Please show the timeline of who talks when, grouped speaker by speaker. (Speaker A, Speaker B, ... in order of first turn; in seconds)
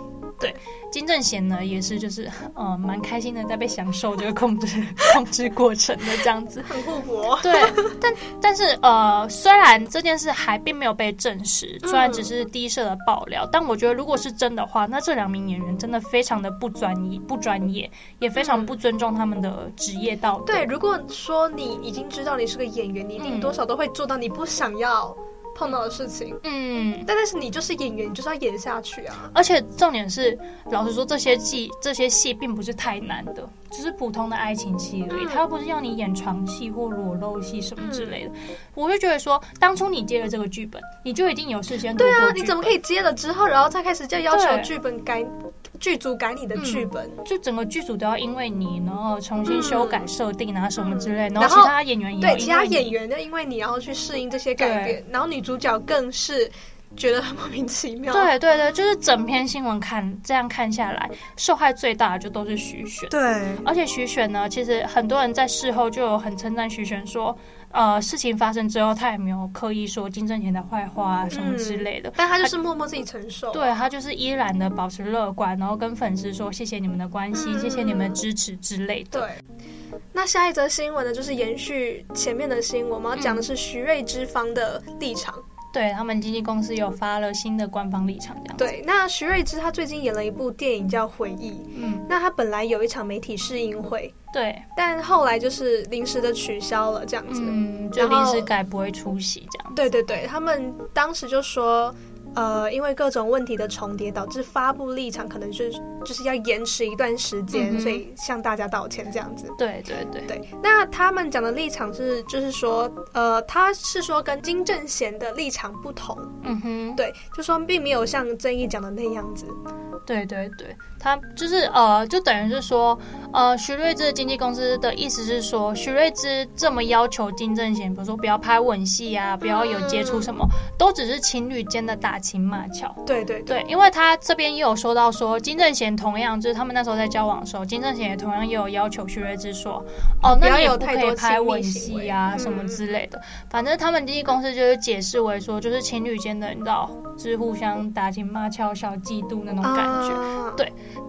Speaker A: 0.4-6.8, 7.4-20.7, 23.2-23.6, 26.4-27.1, 29.3-42.8, 44.3-44.7, 46.6-52.9, 54.6-55.0, 58.1-72.5, 73.5-79.3, 83.2-83.5, 85.7-88.7, 91.7-92.1, 94.3-94.7, 97.3-99.9, 107.5-108.0, 109.6-110.3, 116.4-117.0, 120.1-150.7
Speaker B: 6.7-7.9, 11.8-12.3, 18.3-18.8, 20.4-26.4, 27.1-29.3, 35.1-35.4, 37.8-38.2, 41.9-47.2, 49.5-50.1, 50.8-58.3, 63.1-63.6, 71.3-73.7, 77.3-78.2, 79.1-79.4, 80.1-85.4, 88.6-94.1, 94.8-98.5, 99.8-109.6, 110.2-116.3, 117.0-119.6, 129.4-130.3, 133.1-133.6, 140.3-142.8, 149.6-150.6